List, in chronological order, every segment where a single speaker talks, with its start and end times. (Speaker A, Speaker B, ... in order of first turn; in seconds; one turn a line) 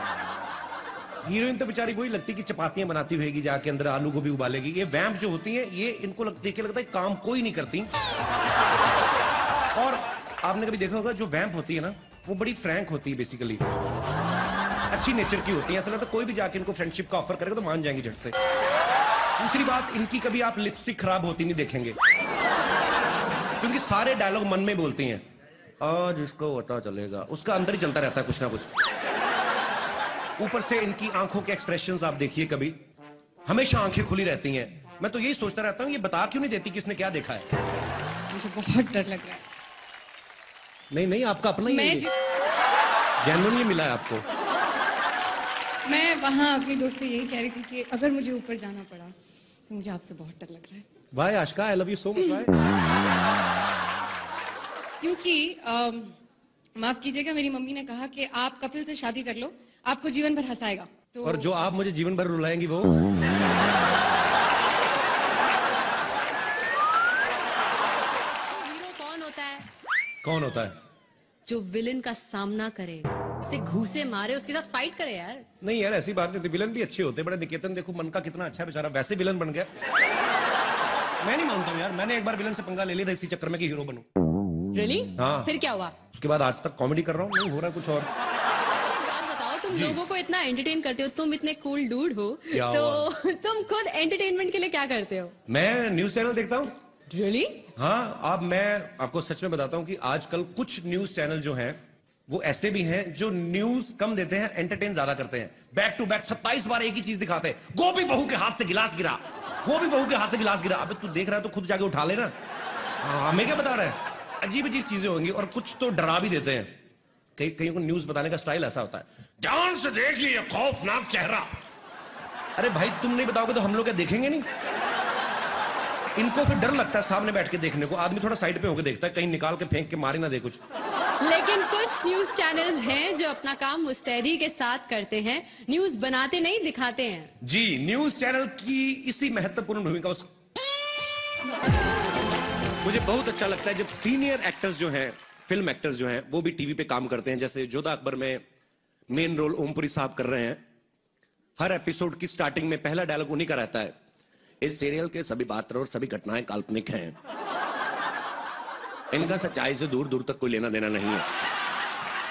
Speaker A: 1.2-7.9
Speaker A: 9.7-13.6
Speaker A: 14.9-18.3
Speaker A: 19.4-21.9
Speaker A: 23.6-25.2
Speaker A: 25.8-28.7
Speaker A: 30.4-32.8
Speaker A: 33.5-37.4
Speaker B: 38.3-39.3
Speaker A: 40.9-42.1
Speaker A: 43.2-44.2
Speaker B: 45.9-48.9
Speaker B: 49.7-50.6
Speaker A: 51.1-52.5
Speaker B: 55.0-55.4
Speaker B: 57.0-59.4
Speaker B: 60.0-60.6
Speaker A: 61.2-63.1
Speaker C: 68.5-69.7
Speaker A: 70.2-70.7
Speaker C: 71.5-75.4
Speaker A: 75.6-79.7
Speaker A: 81.2-84.0
Speaker C: 84.7-85.9
Speaker A: 85.2-85.5
Speaker A: 86.1-88.1
Speaker C: 88.7-95.3
Speaker A: 89.7-90.0
Speaker A: 92.5-93.0
Speaker A: 95.5-96.7
Speaker C: 97.1-97.6
Speaker A: 97.8-112.3
Speaker A: 113.0-116.7
Speaker A: 117.4-121.5
Speaker A: 122.6-124.5
Speaker A: 126.2-130.6
Speaker C: 131.2-137.3
Speaker A: 137.4-140.2
Speaker A: 142.8-148.4
Speaker A: 149.1-150.6
Speaker A: 151.6-153.9
Speaker A: 154.6-157.1
Speaker A: 159.1-161.2